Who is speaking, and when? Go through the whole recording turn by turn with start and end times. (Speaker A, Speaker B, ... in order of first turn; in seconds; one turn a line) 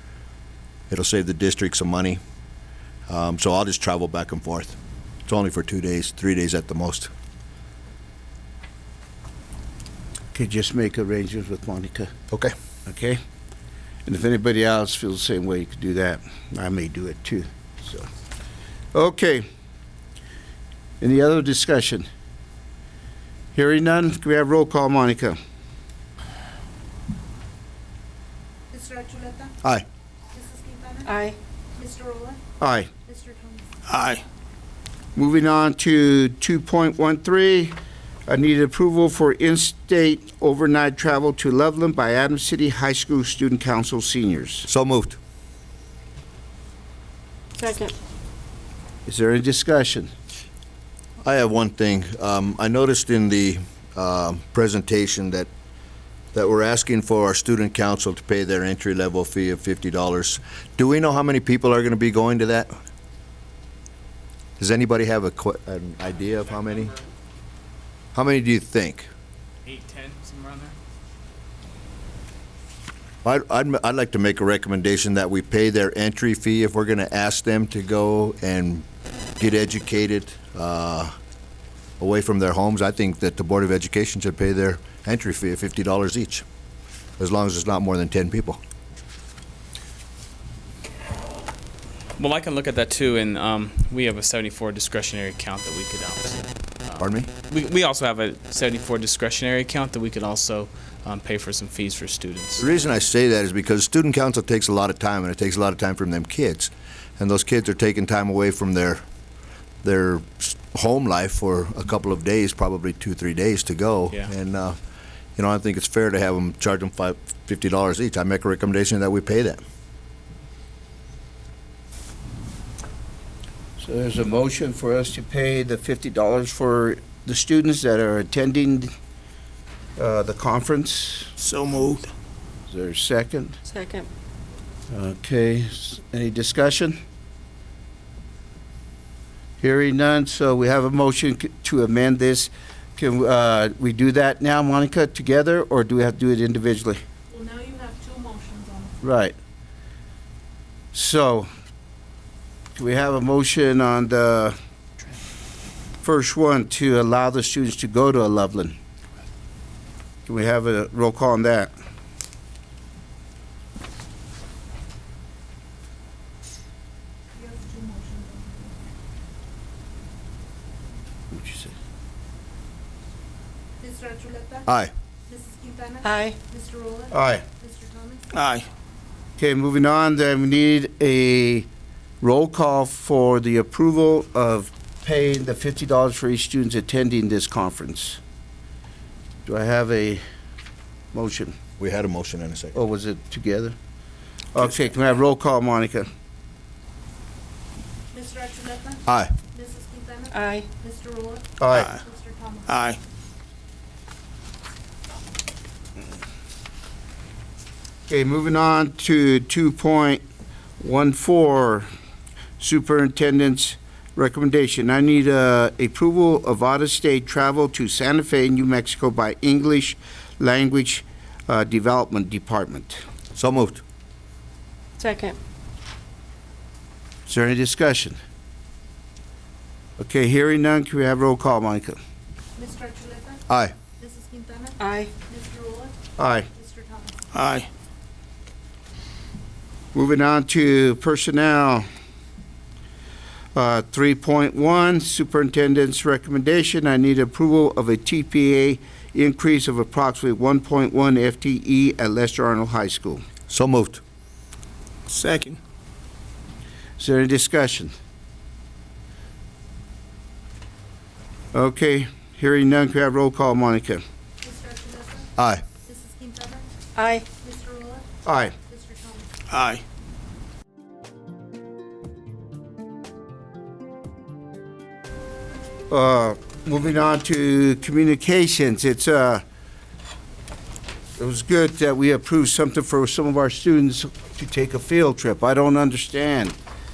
Speaker A: 0.9-2.2
Speaker A: 3.1-7.1
Speaker B: 10.3-12.1
Speaker B: 12.9-13.2
Speaker B: 14.1-18.1
Speaker B: 18.9-19.4
Speaker B: 21.0-22.1
Speaker B: 23.5-25.4
Speaker C: 28.7-29.5
Speaker C: 30.4-31.1
Speaker D: 31.1-31.4
Speaker C: 31.8-32.4
Speaker B: 32.6-32.9
Speaker C: 33.1-33.6
Speaker E: 33.9-34.2
Speaker B: 35.2-37.8
Speaker B: 38.3-44.7
Speaker A: 44.7-45.2
Speaker D: 47.6-48.0
Speaker B: 49.1-50.1
Speaker A: 51.2-55.5
Speaker A: 56.3-62.7
Speaker A: 64.6-67.0
Speaker A: 68.2-69.1
Speaker F: 69.7-70.8
Speaker A: 73.2-78.9
Speaker A: 79.4-81.1
Speaker A: 82.0-86.4
Speaker A: 87.2-88.6
Speaker F: 92.2-102.7
Speaker A: 97.0-97.3
Speaker A: 102.6-109.0
Speaker A: 109.8-114.8
Speaker A: 115.4-119.6
Speaker B: 123.8-128.9
Speaker B: 130.0-131.3
Speaker E: 131.4-132.1
Speaker B: 132.7-133.6
Speaker D: 133.7-134.1
Speaker B: 134.9-137.0
Speaker B: 139.6-147.0
Speaker C: 147.3-149.0
Speaker B: 149.0-149.4
Speaker B: 150.9-151.5
Speaker B: 152.8-154.6
Speaker B: 156.0-158.8
Speaker B: 160.3-161.7
Speaker C: 167.4-168.7
Speaker B: 171.3-171.7
Speaker C: 173.8-174.7
Speaker A: 174.7-174.9
Speaker C: 175.3-178.2
Speaker D: 176.0-176.4
Speaker B: 177.1-177.5
Speaker E: 178.3-178.7
Speaker B: 179.4-181.7
Speaker B: 182.2-188.2
Speaker B: 189.5-190.2
Speaker B: 191.1-191.6
Speaker A: 191.8-192.8
Speaker B: 192.7-193.8
Speaker B: 194.5-196.1
Speaker C: 198.1-202.7
Speaker A: 199.1-199.3
Speaker D: 200.3-200.7
Speaker B: 201.6-202.0
Speaker E: 201.7-202.0
Speaker E: 202.7-203.0
Speaker B: 208.1-210.2
Speaker B: 210.8-211.9
Speaker B: 212.6-223.0
Speaker A: 223.3-223.8
Speaker D: 225.0-225.4
Speaker B: 227.3-228.2
Speaker B: 230.0-232.0
Speaker C: 232.6-233.4
Speaker A: 233.5-233.8
Speaker C: 234.0-235.9
Speaker D: 234.8-235.1
Speaker B: 236.2-236.5
Speaker C: 236.6-237.1
Speaker E: 237.3-237.7
Speaker B: 239.9-241.9
Speaker B: 243.6-253.2
Speaker A: 253.5-254.0
Speaker E: 255.1-255.6
Speaker B: 257.0-257.9
Speaker B: 261.5-264.0
Speaker C: 264.4-265.3
Speaker A: 265.4-265.6
Speaker C: 265.9-266.7
Speaker D: 267.0-267.3
Speaker C: 267.4-268.1
Speaker B: 268.2-268.6
Speaker C: 268.7-269.3
Speaker E: 269.5-269.8
Speaker B: 275.9-279.4
Speaker B: 281.2-286.6